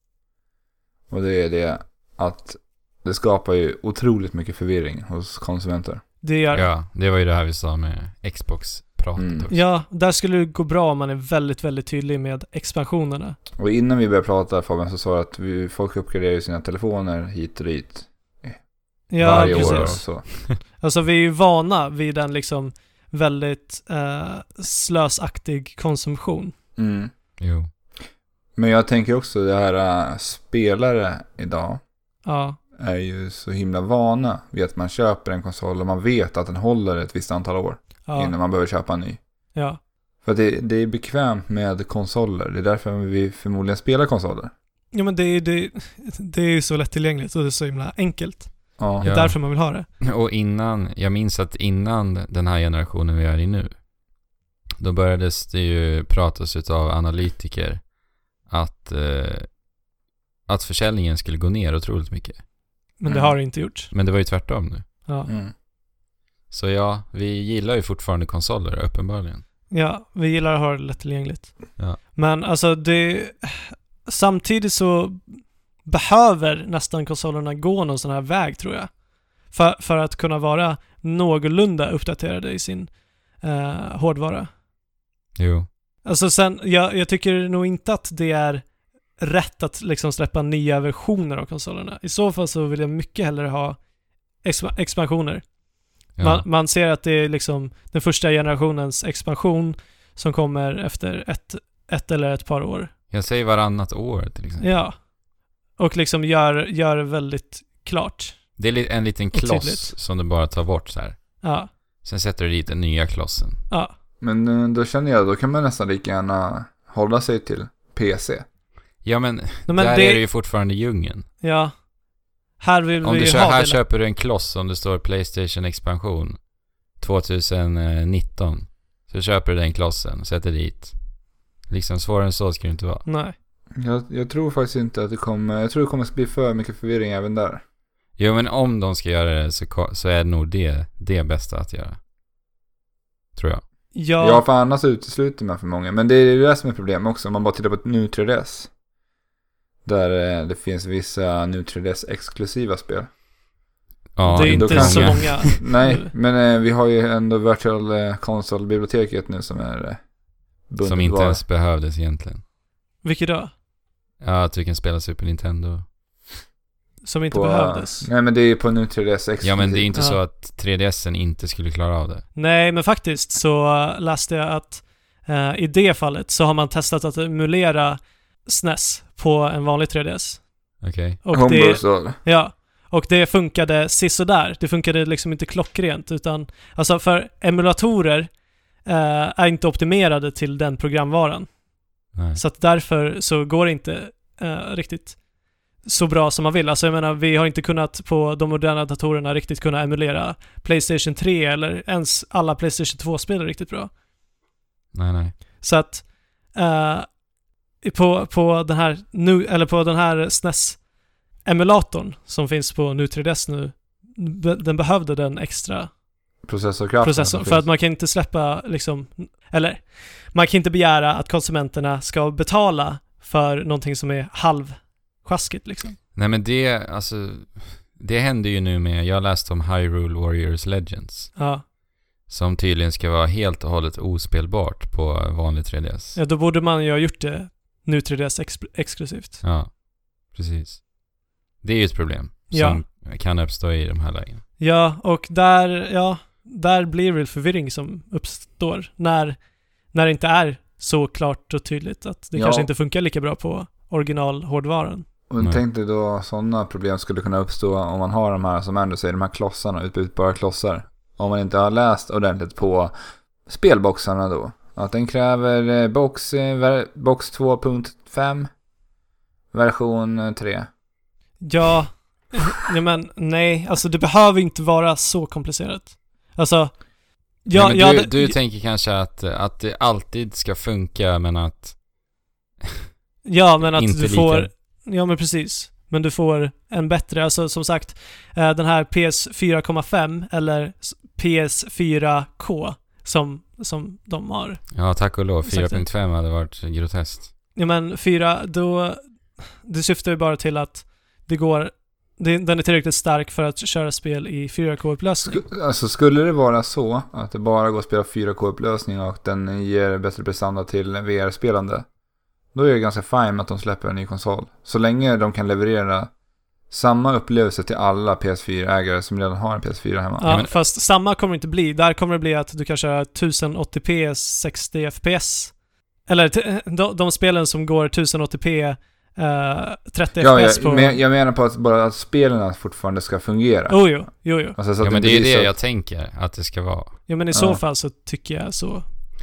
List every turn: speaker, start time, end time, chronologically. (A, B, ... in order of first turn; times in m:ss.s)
0:01.1-0:06.0 A
0:06.2-0:06.7 B
0:06.5-0:09.6 C
0:09.2-0:09.5 A
0:09.5-0:13.4 B
0:13.6-0:18.6 A
0:19.1-0:26.5 B
0:19.1-0:20.2 A
0:19.2-0:20.4 C
0:26.8-0:27.1 A
0:27.4-0:27.7 C
0:28.6-0:31.8 A
0:32.2-0:32.6 B
0:32.8-0:39.2 A
0:38.0-0:38.3 B
0:40.2-0:44.5 A
0:44.9-0:49.9 B
0:48.8-0:49.0 A
0:49.0-0:53.8 C
0:54.8-0:59.6 C
1:00.5-1:02.4 C
1:03.0-1:03.9 B
1:03.1-1:03.4 A
1:03.8-1:04.9 C
1:05.3-1:05.5 A
1:06.5-1:09.4 C
1:09.7-1:18.9 B
1:19.5-1:24.5 B
1:25.4-1:25.7 C
1:26.0-1:33.8 B
1:34.4-1:35.4 B
1:36.1-1:42.9 B
1:36.2-1:36.4 C
1:43.1-1:44.7 C
1:44.6-1:45.0 B
1:45.8-1:48.4 B
1:48.6-1:51.4 C
1:49.3-1:49.9 B
1:51.4-1:51.7 B
1:52.0-1:53.6 C
1:54.2-1:58.4 A
1:59.0-2:01.3 C
1:59.7-2:00.2 B
2:01.4-2:01.8 B
2:02.6-2:03.8 B
2:03.0-2:06.4 C
2:07.0-2:13.1 C
2:13.1-2:13.4 B
2:13.8-2:17.6 A
2:18.2-2:22.0 C
2:23.4-2:23.6 C
2:23.9-2:24.4 B
2:24.2-2:28.7 A
2:29.8-2:33.1 A
2:34.2-2:35.6 C
2:34.2-2:36.1 B
2:34.4-2:40.0 A
2:40.7-2:41.4 A
2:40.8-2:42.4 C
2:43.0-2:43.5 B
2:44.2-2:45.9 C
2:47.0-2:48.1 B
2:47.3-2:49.9 A
2:49.4-2:52.3 C
2:52.4-3:08.3 B
3:00.8-3:01.2 C
3:01.3-3:02.2 A
3:08.8-3:11.6 B
3:12.1-3:12.4 C
3:12.3-3:15.2 B
3:15.8-3:23.9 B
3:24.9-3:25.4 C
3:25.6-3:27.2 B
3:27.8-3:30.8 B
3:31.4-3:35.9 B
3:36.4-3:37.7 A
3:37.0-3:46.0 B
3:46.1-3:51.4 C
3:51.4-3:51.6 B
3:52.3-3:56.2 C
3:56.1-3:59.4 B
3:59.4-4:00.9 C
4:01.6-4:04.4 C
4:02.5-4:02.8 B
4:04.6-4:09.4 B
4:09.9-4:15.1 B
4:12.3-4:12.7 A
4:15.3-4:22.9 A
4:23.4-4:28.5 A
4:29.5-4:30.7 A
4:31.4-4:36.9 B
4:37.4-4:38.4 B
4:37.5-4:41.8 C
4:43.2-4:54.8 B
4:43.6-4:44.5 C
4:54.7-4:57.3 C
4:55.4-4:55.9 B
4:57.6-4:59.0 B
4:59.6-5:05.4 B
5:05.2-5:11.9 A
5:12.5-5:16.1 A
5:16.7-5:20.4 A
5:20.2-5:31.0 B
5:20.3-5:20.6 C
5:30.2-5:35.5 A
5:33.7-5:34.6 B
5:34.8-5:37.0 C
5:37.1-5:38.9 B
5:37.3-5:37.6 A